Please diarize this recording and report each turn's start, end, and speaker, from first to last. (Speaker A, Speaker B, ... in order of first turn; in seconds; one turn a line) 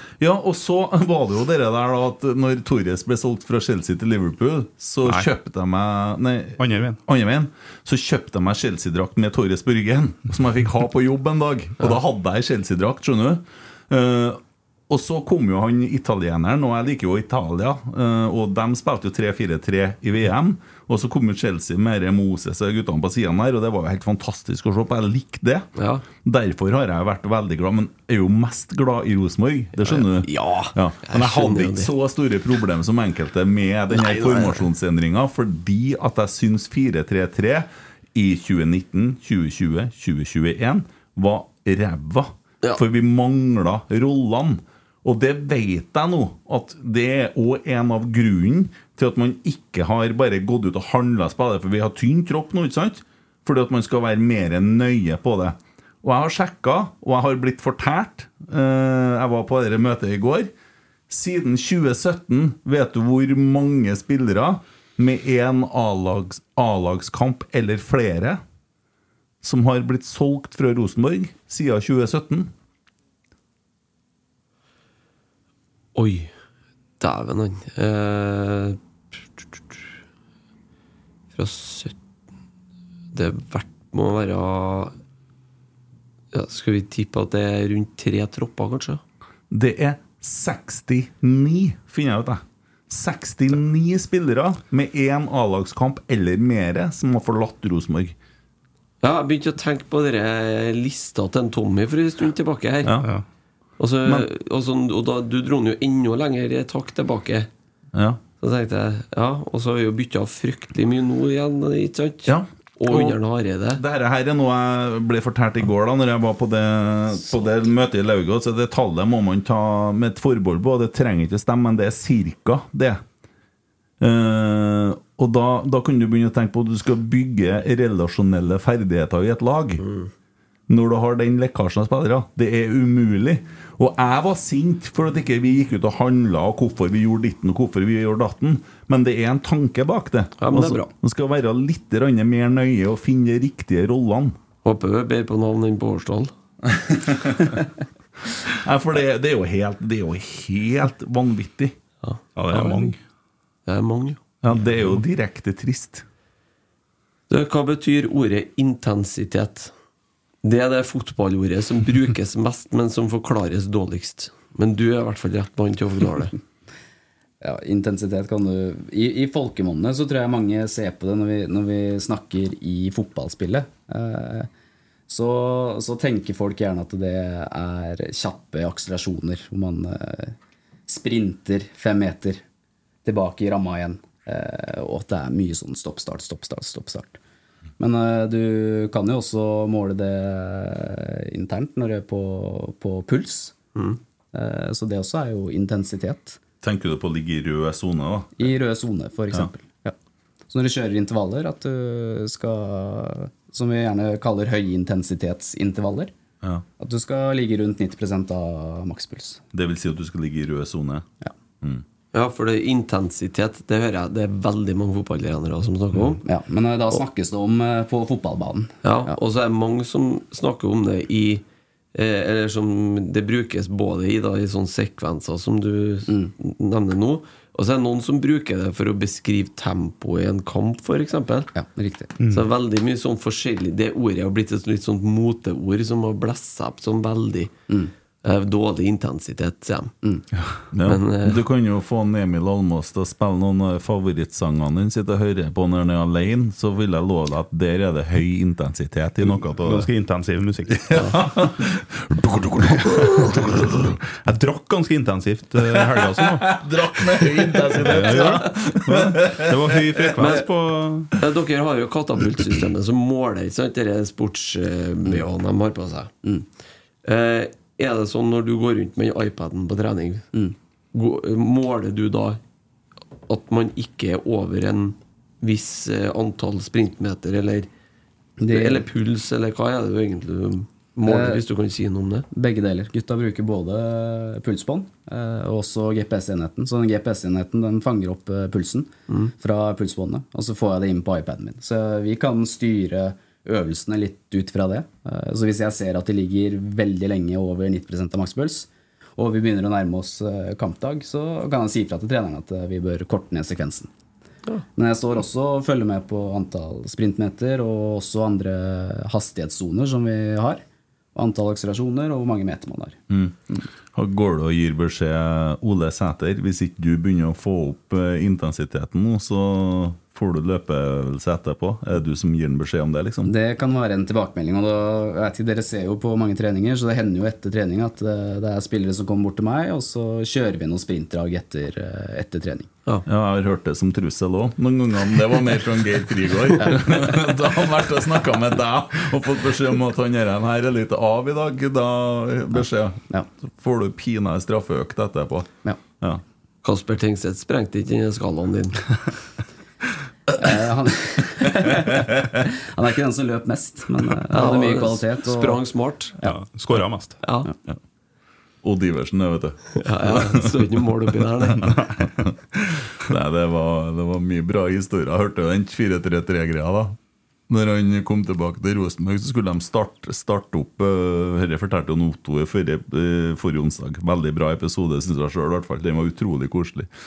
Speaker A: 0.2-25.7
Speaker B: 6.6-7.0
Speaker C: 25.8-26.0
Speaker A: 26.2-60.5
Speaker C: 29.8-31.9
Speaker C: 33.9-34.6
Speaker A: 61.1-68.4
Speaker A: 69.4-72.5
Speaker C: 75.9-76.3
Speaker C: 77.0-78.8
Speaker C: 79.5-79.8
Speaker C: 81.3-81.9
Speaker C: 83.1-84.9
Speaker C: 86.3-89.0
Speaker A: 89.5-98.2
Speaker C: 99.0-103.0
Speaker A: 102.8-103.1
Speaker C: 103.8-107.5
Speaker A: 107.9-108.2
Speaker C: 108.4-113.8
Speaker A: 112.2-113.2
Speaker A: 113.7-123.0
Speaker A: 124.0-129.8
Speaker A: 130.7-144.3
Speaker C: 140.4-140.9
Speaker C: 144.6-146.3
Speaker A: 146.6-147.6
Speaker A: 148.5-151.8
Speaker C: 152.0-152.9
Speaker B: 152.3-153.0
Speaker C: 153.7-154.2
Speaker A: 154.4-156.0
Speaker C: 157.3-159.7
Speaker C: 160.4-166.3
Speaker D: 167.4-174.5
Speaker D: 175.1-180.3
Speaker D: 180.9-182.4
Speaker D: 183.0-187.2
Speaker D: 187.8-193.5
Speaker D: 194.3-196.4
Speaker A: 196.6-198.5
Speaker D: 198.4-199.9
Speaker D: 200.5-206.1
Speaker D: 206.8-209.4
Speaker A: 209.5-211.1
Speaker C: 212.1-216.2
Speaker D: 216.2-219.2
Speaker C: 218.8-231.5
Speaker D: 226.1-226.3
Speaker D: 231.5-232.1
Speaker B: 232.2-232.5
Speaker C: 232.3-237.5
Speaker C: 238.2-239.9
Speaker A: 240.7-249.9
Speaker C: 240.8-241.4
Speaker B: 249.6-251.2
Speaker A: 250.8-254.0
Speaker B: 254.2-256.5
Speaker A: 255.7-260.3
Speaker B: 257.8-261.1
Speaker C: 260.2-260.4
Speaker C: 261.2-266.1
Speaker C: 267.0-270.3
Speaker C: 270.9-272.4
Speaker C: 273.3-277.7
Speaker D: 278.4-278.8
Speaker C: 278.5-282.2
Speaker D: 281.1-281.4
Speaker D: 282.3-303.9
Speaker D: 304.8-310.6
Speaker D: 311.1-313.0
Speaker A: 313.1-313.4
Speaker A: 313.9-323.3
Speaker D: 323.2-332.7
Speaker A: 333.0-346.2
Speaker C: 346.6-349.0
Speaker D: 350.4-355.6
Speaker C: 354.3-356.2
Speaker B: 356.2-357.2
Speaker C: 357.2-357.5
Speaker A: 358.6-360.5
Speaker C: 359.8-361.8
Speaker B: 361.6-362.1
Speaker A: 363.0-366.9
Speaker A: 367.5-376.9